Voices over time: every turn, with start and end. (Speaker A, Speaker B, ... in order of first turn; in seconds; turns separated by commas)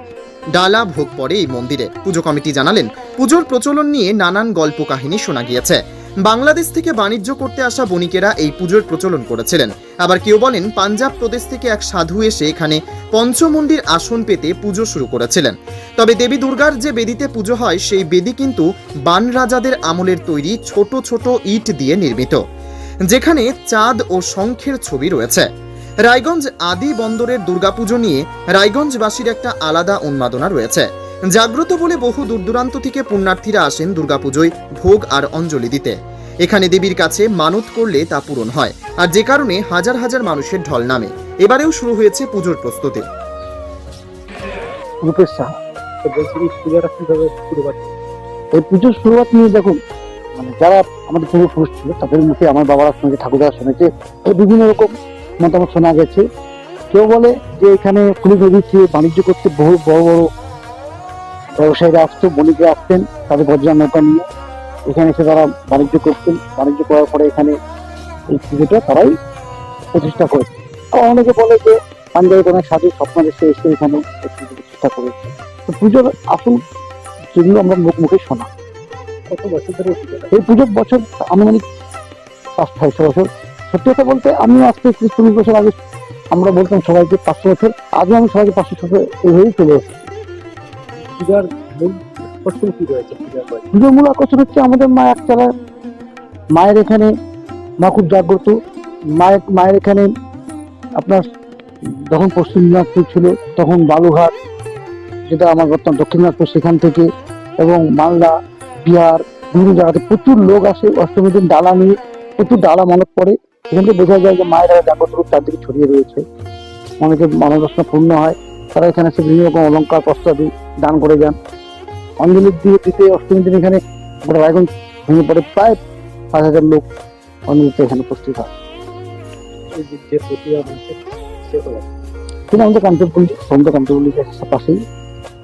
Speaker A: 0.6-22.4, Speaker A: 23.1-25.5, Speaker A: 26.1-43.1, Speaker B: 45.0-45.5, Speaker C: 46.0-48.0, Speaker B: 48.5-49.8, Speaker B: 50.4-56.3, Speaker B: 56.9-60.3, Speaker B: 61.6-64.3, Speaker B: 64.8-67.6, Speaker B: 68.3-69.2, Speaker B: 69.9-76.6, Speaker B: 77.3-78.5, Speaker C: 79.3-80.4, Speaker B: 80.3-81.6, Speaker B: 82.6-85.8, Speaker B: 86.3-90.1, Speaker C: 91.0-93.7, Speaker B: 93.7-95.5, Speaker B: 96.5-97.1, Speaker B: 97.8-98.6, Speaker B: 99.2-100.1, Speaker B: 101.0-101.2, Speaker B: 101.8-104.3, Speaker B: 105.3-116.2, Speaker B: 117.0-121.4, Speaker B: 122.2-125.8, Speaker B: 126.3-126.9, Speaker B: 127.5-128.5, Speaker C: 129.7-131.9, Speaker B: 132.5-134.8